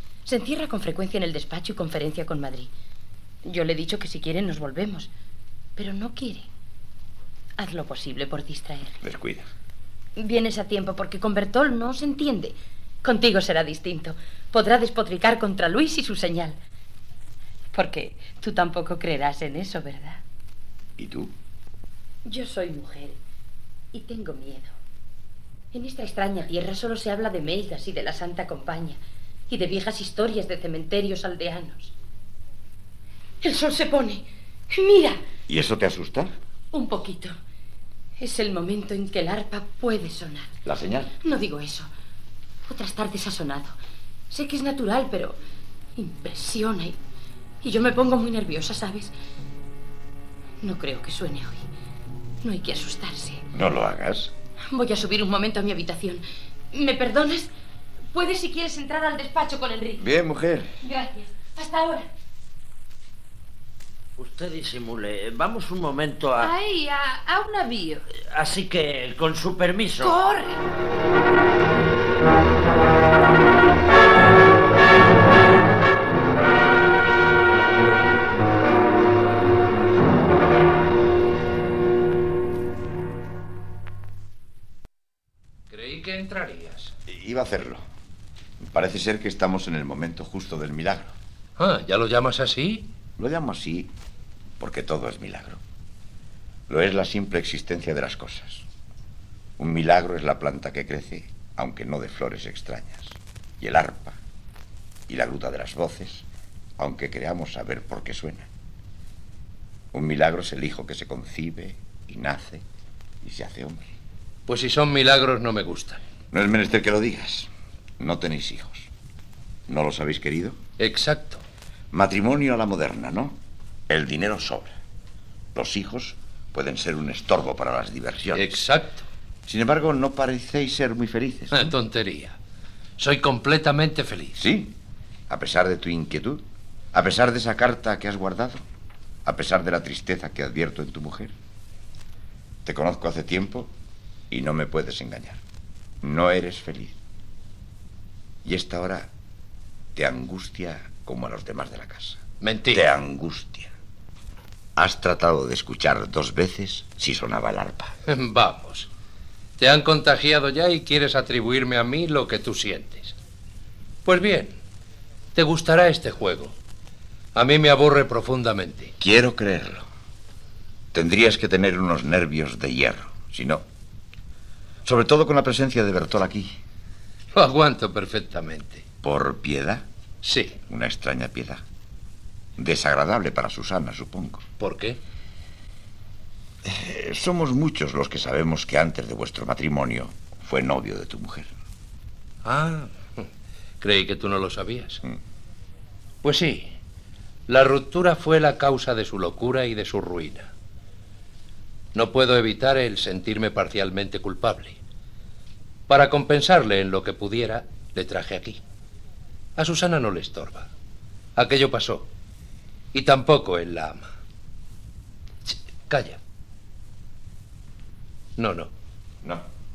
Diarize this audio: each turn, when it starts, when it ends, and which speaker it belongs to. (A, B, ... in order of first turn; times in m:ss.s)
0:00.3-0:02.7 A
0:03.4-0:05.1 A
0:05.8-0:06.5 A
0:07.6-0:09.0 A
0:09.0-0:09.5 B
0:10.2-0:16.6 A
0:17.7-0:20.2 A
0:21.0-0:21.3 B
0:22.2-0:23.2 A
0:23.9-0:24.7 A
0:25.7-0:31.9 A
0:33.4-0:35.2 A
0:35.5-0:36.4 B
0:36.7-0:37.4 A
0:38.2-0:40.5 A
0:40.6-0:41.1 B
0:41.2-0:41.9 A
0:42.7-0:43.8 A
0:44.3-0:45.4 A
0:46.0-0:47.0 A
0:47.6-0:49.1 A
0:50.6-0:51.7 A
0:52.4-0:53.4 A
0:53.5-0:54.3 B
0:54.7-0:57.5 A
0:58.1-1:00.0 A
1:00.0-1:00.8 B
1:00.8-1:02.1 A
1:04.2-1:06.5 C
1:06.4-1:08.1 D
1:08.2-1:10.2 C
1:10.0-1:10.6 D
1:25.7-1:26.9 E
1:27.1-1:27.8 B
1:28.6-1:31.2 B
1:31.6-1:32.9 E
1:33.2-1:33.9 B
1:34.6-1:35.6 B
1:36.7-1:38.7 B
1:39.6-1:44.2 B
1:45.1-1:46.3 B
1:46.8-1:48.5 B
1:49.9-1:52.6 B
1:53.2-1:54.0 B
1:54.5-1:56.0 E
1:56.3-1:58.9 B
1:59.7-2:00.6 B
2:00.8-2:01.4 E
2:01.9-2:03.4 B
2:03.9-2:04.7 B
2:05.5-2:08.6 B
2:08.3-2:09.1 E
2:09.5-2:11.7 B
2:11.5-2:12.4 E
2:13.0-2:14.4 E
2:14.4-2:14.8 B
2:15.3-2:16.4 B
2:16.9-2:18.6 B
2:19.3-2:21.3 B
2:22.6-2:23.7 B
2:24.3-2:25.4 B
2:26.0-2:27.0 B
2:28.4-2:29.1 B
2:30.0-2:32.2 B
2:32.4-2:32.8 E
2:32.7-2:33.7 B
2:34.8-2:37.9 B
2:38.1-2:38.9 E
2:39.6-2:43.2 E
2:44.1-2:44.6 E
2:45.4-2:46.6 E
2:47.4-2:48.9 E
2:49.0-2:49.9 B
2:50.9-2:53.6 B
2:54.8-2:56.6 B
2:57.3-2:58.8 E
2:59.0-2:59.9 B
3:00.2-3:00.6 E
3:00.7-3:01.6 B
3:02.6-3:04.4 B
3:04.6-3:05.0 E
3:06.6-3:11.5 B
3:12.4-3:13.3 E
3:13.8-3:15.0 E
3:16.2-3:16.8 E
3:17.5-3:20.5 E
3:22.0-3:24.8 E
3:25.9-3:28.6 E
3:29.6-3:30.7 E
3:31.4-3:32.1 E
3:32.9-3:34.1 E
3:35.5-3:36.2 E
3:38.4-3:38.7 E